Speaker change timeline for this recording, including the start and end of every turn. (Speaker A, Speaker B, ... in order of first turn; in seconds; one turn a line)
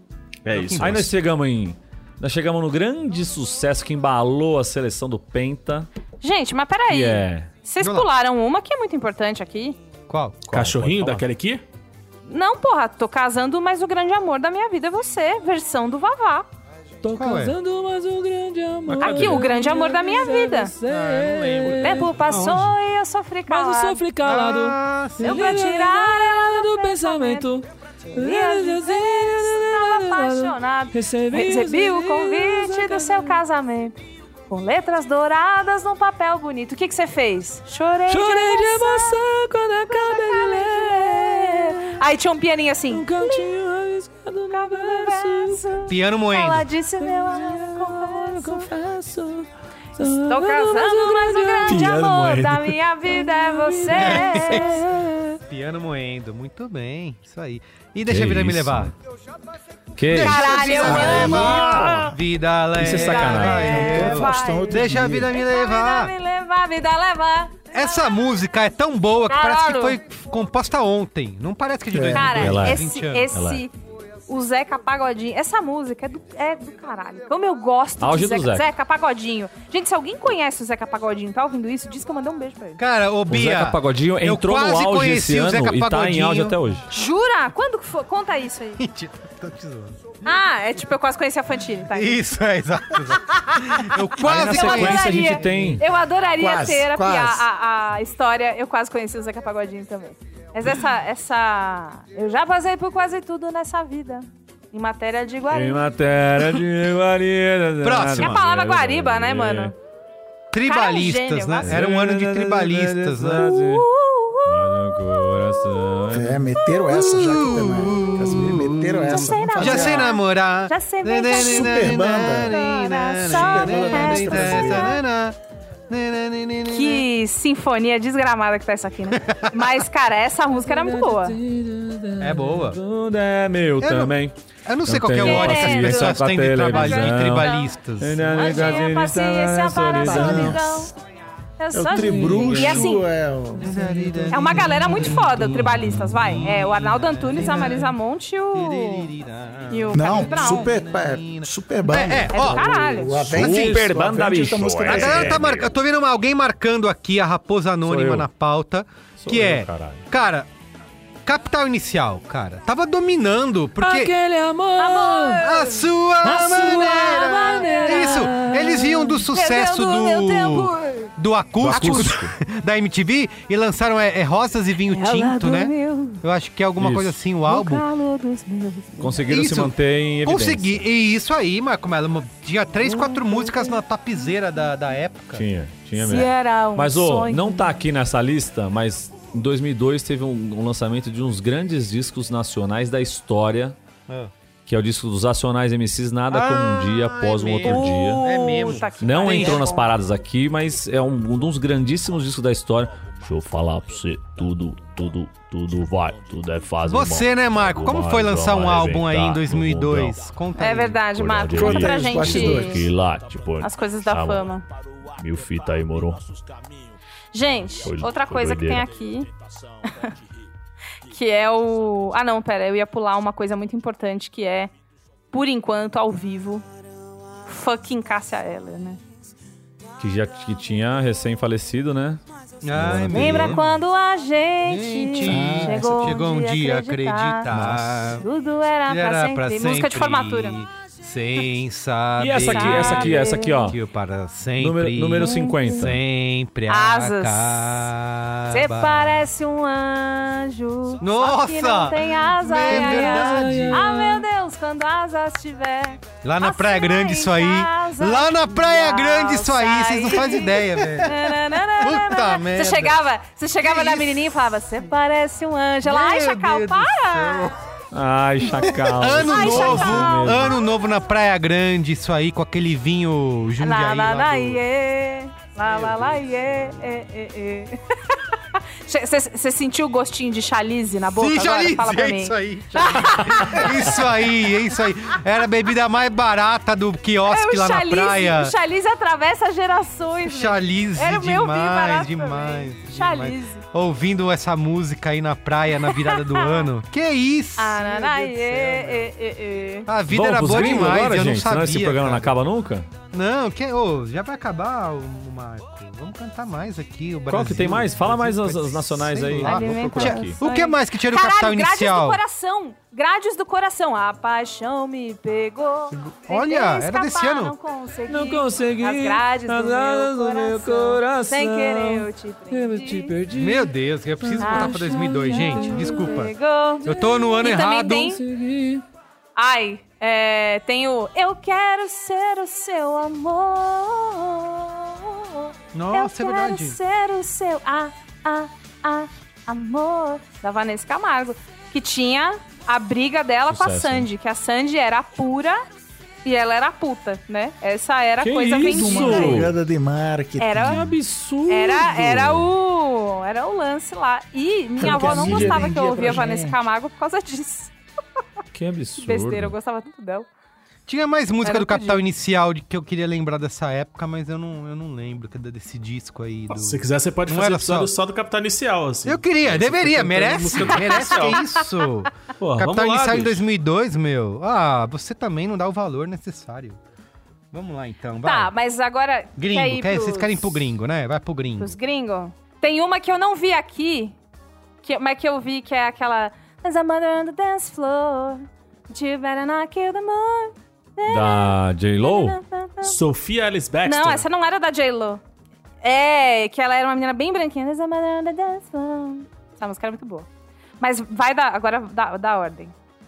Speaker A: 0.4-1.1
Speaker B: 0.5-1.1
Speaker C: 0.8-5.9
Speaker D: 6.2-9.8
Speaker C: 6.9-7.5
Speaker B: 7.8-8.1
Speaker B: 10.1-10.4
Speaker C: 10.5-11.2
Speaker A: 10.5-11.6
Speaker D: 12.3-16.5
Speaker C: 17.0-22.5
Speaker B: 17.1-17.6
Speaker B: 19.0-19.4
Speaker D: 19.0-20.7
Speaker B: 20.9-22.6
Speaker D: 21.8-24.0
Speaker C: 23.5-33.4
Speaker B: 24.2-25.6
Speaker D: 25.2-27.5
Speaker D: 28.1-39.3
Speaker C: 38.1-42.0
Speaker D: 39.9-43.5
Speaker C: 42.9-45.6
Speaker D: 44.5-48.7
Speaker B: 45.9-46.7
Speaker C: 47.0-51.9
Speaker D: 50.1-55.0
Speaker A: 51.6-52.8
Speaker C: 53.1-55.4
Speaker B: 53.9-54.8
Speaker B: 55.5-58.9
Speaker C: 58.0-58.9
Speaker C: 60.0-62.1
Speaker B: 60.1-66.1
Speaker D: 60.1-62.1
Speaker E: 60.8-62.1
Speaker C: 62.7-63.8
Speaker D: 62.9-68.3
Speaker E: 63.5-65.3
Speaker B: 67.7-73.3
Speaker D: 69.3-70.0
Speaker E: 71.9-72.6
Speaker D: 72.1-73.7
Speaker C: 72.3-73.6
Speaker D: 74.3-82.8
Speaker C: 78.0-78.7
Speaker B: 82.8-86.6
Speaker C: 83.3-86.9
Speaker D: 86.9-88.8
Speaker B: 88.8-90.0
Speaker D: 90.2-92.2
Speaker B: 91.9-95.8
Speaker D: 93.3-105.9
Speaker C: 94.2-95.8
Speaker E: 96.4-97.5
Speaker C: 105.5-109.7
Speaker B: 107.8-108.4
Speaker D: 108.1-109.7
Speaker B: 110.5-113.5
Speaker D: 110.6-111.8
Speaker C: 111.6-113.9
Speaker D: 113.3-117.7
Speaker C: 114.5-116.5
Speaker E: 116.1-120.2
Speaker B: 116.9-125.3
Speaker D: 119.0-125.0
Speaker E: 121.3-122.6
Speaker E: 123.2-125.0
Speaker B: 125.9-127.0
Speaker D: 126.7-131.4
Speaker B: 129.2-129.5
Speaker C: 130.6-134.3
Speaker B: 132.2-132.8
Speaker B: 133.8-134.1
Speaker B: 134.7-138.7
Speaker C: 134.8-140.6
Speaker D: 135.2-137.8
Speaker D: 138.3-140.9
Speaker B: 140.0-140.4
Speaker E: 140.1-140.9
Speaker D: 141.6-143.1
Speaker E: 141.7-143.8
Speaker C: 141.9-143.0
Speaker B: 143.6-147.9
Speaker C: 143.7-144.5
Speaker D: 144.3-149.1
Speaker B: 148.5-152.6
Speaker D: 149.7-150.7
Speaker E: 149.9-155.5
Speaker D: 152.3-153.3
Speaker C: 153.3-155.8
Speaker B: 153.3-153.8
Speaker B: 154.8-160.5
Speaker C: 157.8-158.3
Speaker C: 159.2-160.0
Speaker B: 161.2-164.1
Speaker C: 163.8-165.5
Speaker D: 164.8-171.1
Speaker B: 165.4-177.8
Speaker C: 166.2-169.1
Speaker C: 171.6-172.3
Speaker D: 171.7-172.1
Speaker D: 174.8-176.2
Speaker C: 176.8-177.2
Speaker D: 177.5-179.3
Speaker C: 179.0-180.9
Speaker B: 179.3-185.4
Speaker D: 182.8-183.8
Speaker C: 185.3-193.8
Speaker D: 186.0-187.8
Speaker C: 194.7-198.3
Speaker B: 196.3-199.7
Speaker D: 197.6-199.9
Speaker C: 199.0-210.3
Speaker B: 206.8-211.0
Speaker D: 210.6-212.9
Speaker C: 211.0-214.5
Speaker E: 211.5-212.9
Speaker D: 213.6-214.7
Speaker C: 215.2-216.3
Speaker D: 217.3-219.3
Speaker C: 217.8-218.9
Speaker D: 221.1-224.7
Speaker D: 225.3-226.7
Speaker D: 227.4-229.0
Speaker C: 230.0-232.2
Speaker B: 232.6-233.6
Speaker C: 232.7-233.6
Speaker D: 233.1-240.6
Speaker B: 234.6-238.2
Speaker E: 235.2-236.2
Speaker B: 238.9-249.1
Speaker C: 242.2-243.8
Speaker D: 242.4-243.7
Speaker C: 244.6-246.0
Speaker D: 245.2-245.9
Speaker D: 246.7-247.9
Speaker D: 248.5-267.5
Speaker B: 251.0-253.9
Speaker C: 252.6-254.2
Speaker B: 256.2-263.0
Speaker B: 263.6-264.2
Speaker B: 265.8-267.6
Speaker C: 267.9-270.6
Speaker B: 268.5-274.6
Speaker D: 269.1-271.0
Speaker D: 273.6-277.8
Speaker B: 275.6-276.2
Speaker D: 278.9-284.2
Speaker B: 281.1-288.5
Speaker D: 287.2-293.6
Speaker B: 290.3-299.1
Speaker D: 295.8-296.7
Speaker D: 297.6-299.9
Speaker B: 299.9-302.3
Speaker C: 300.1-302.9
Speaker B: 303.1-312.2
Speaker C: 307.3-310.4
Speaker D: 309.4-323.1
Speaker B: 315.9-317.5
Speaker C: 318.1-326.2
Speaker B: 323.3-326.3
Speaker D: 324.4-328.2
Speaker B: 326.8-328.2
Speaker C: 326.8-328.8
Speaker D: 329.4-345.6
Speaker B: 335.7-336.8
Speaker C: 343.5-344.1
Speaker D: 346.2-349.5
Speaker C: 348.2-349.5
Speaker E: 348.6-350.9
Speaker D: 350.4-350.9
Speaker C: 350.6-352.5
Speaker D: 351.5-357.7
Speaker E: 354.8-356.6
Speaker C: 354.8-355.8
Speaker C: 358.5-359.6
Speaker D: 359.0-360.3
Speaker B: 360.9-367.9
Speaker D: 361.4-362.0
Speaker A: 366.5-371.5
Speaker B: 369.0-376.8
Speaker D: 371.1-371.4
Speaker A: 372.4-373.4
Speaker B: 377.5-378.5
Speaker D: 378.2-380.6
Speaker B: 379.4-381.7
Speaker D: 381.6-384.1
Speaker D: 384.8-393.0
Speaker C: 391.1-392.4
Speaker A: 392.8-394.2
Speaker D: 393.8-395.2
Speaker D: 395.8-400.3
Speaker D: 400.8-402.7